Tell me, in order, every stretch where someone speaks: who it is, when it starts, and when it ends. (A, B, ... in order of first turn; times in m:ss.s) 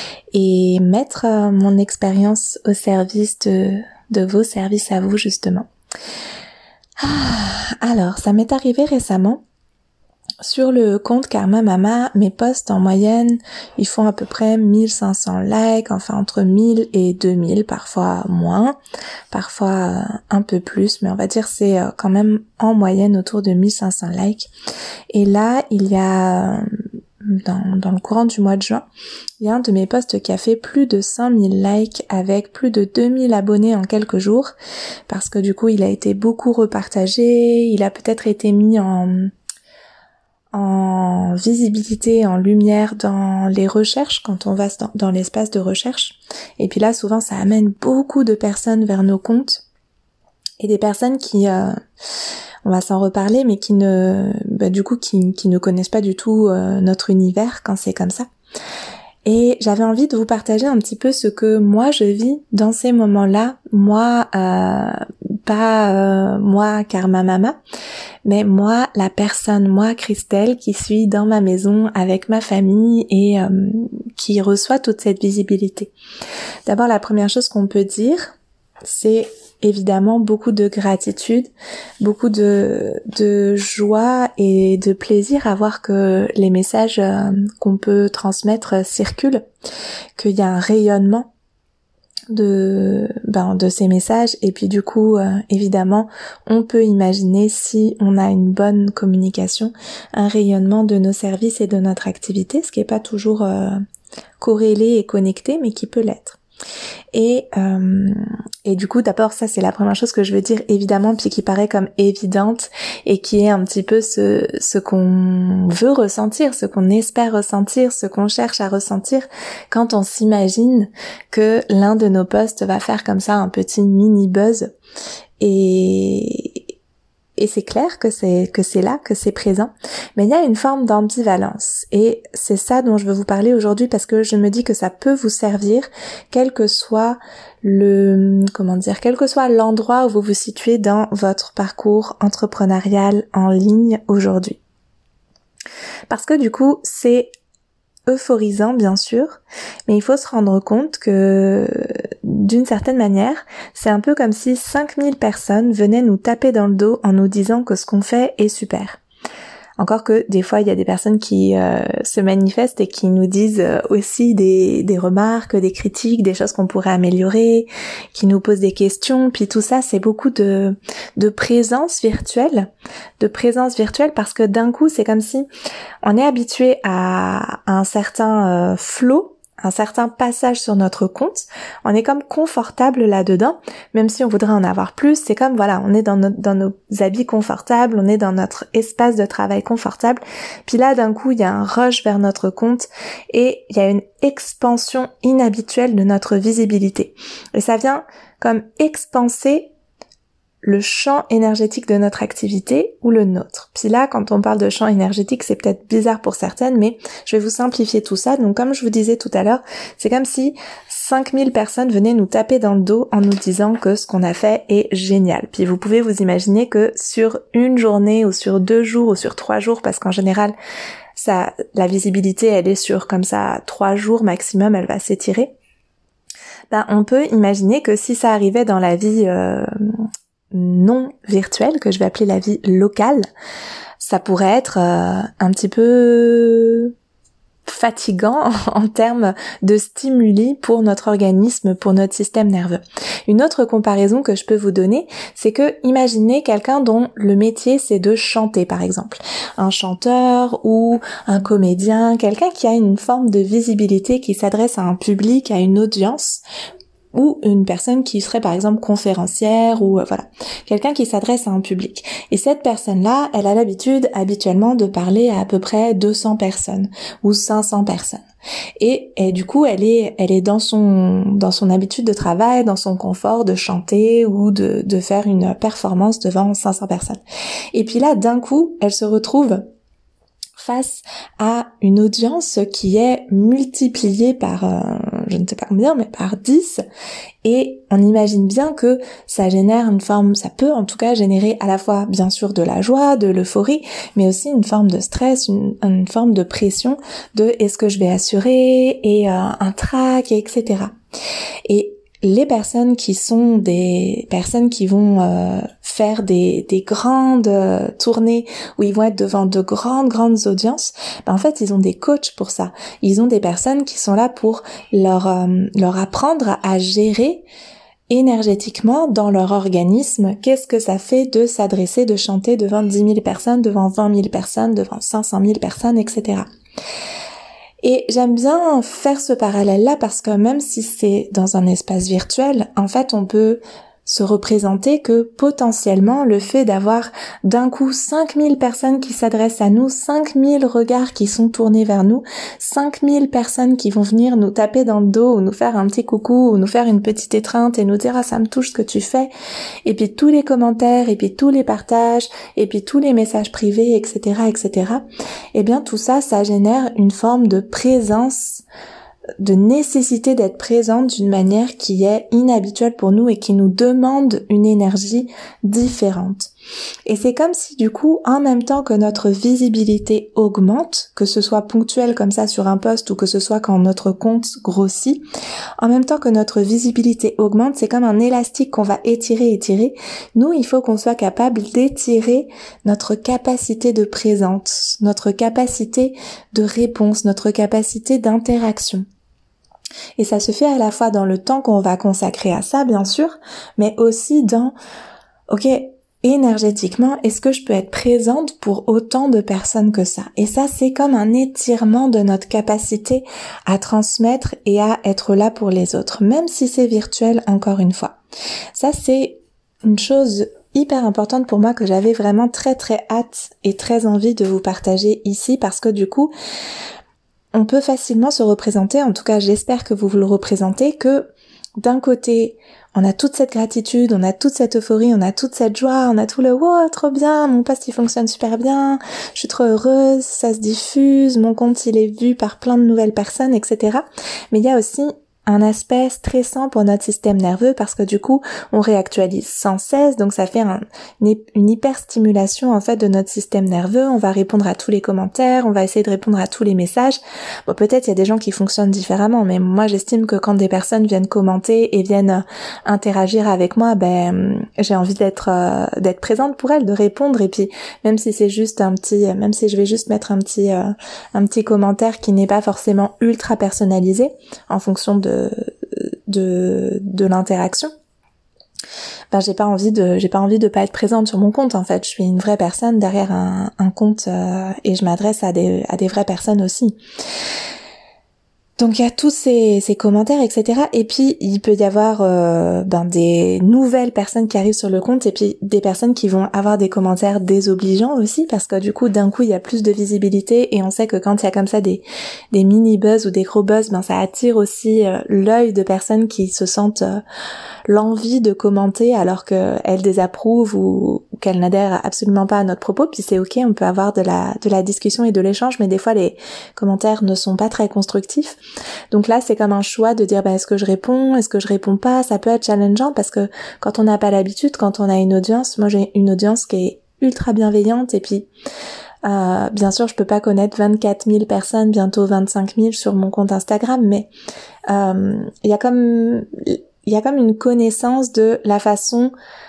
0:00.3-0:05.7 A
0:07.0-0:09.4 A
0:10.4-0:18.8 A
0:19.3-0:24.5 A
0:25.1-0:26.7 A
0:27.2-0:28.8 A
0:29.4-0:34.5 A
0:35.1-0:39.3 A
0:40.5-0:49.6 A
0:50.6-0:51.8 A
0:52.6-0:58.3 A
0:59.2-1:07.6 A
1:08.2-1:15.9 A
1:16.6-1:29.4 A
1:30.2-1:31.3 A
1:32.3-1:43.8 A
1:44.4-1:46.4 A
1:47.1-2:04.7 A
2:05.4-2:06.6 A
2:07.4-2:24.6 A
2:26.1-2:27.3 A
2:28.1-2:39.0 A
2:39.8-2:55.5 A
2:56.0-3:19.7 A
3:20.6-3:40.5 A
3:41.2-3:45.5 A
3:46.7-3:53.3 A
3:54.0-3:56.9 A
3:57.7-4:16.4 A
4:17.1-4:28.2 A
4:28.8-4:37.2 A
4:37.7-4:39.6 A
4:40.6-4:46.8 A
4:47.4-5:00.9 A
5:01.7-5:17.4 A
5:18.1-5:26.5 A
5:27.8-5:49.3 A
5:49.8-5:58.6 A
5:59.4-6:06.5 A
6:07.0-6:15.2 A
6:15.8-6:29.0 A
6:30.2-6:34.7 A
6:35.5-6:48.2 A
6:48.7-6:56.3 A
6:57.5-7:47.9 A
7:49.3-7:57.0 A
7:58.8-8:17.2 A
8:17.9-8:28.6 A
8:29.1-8:38.5 A
8:39.2-8:44.3 A
8:44.9-8:49.3 A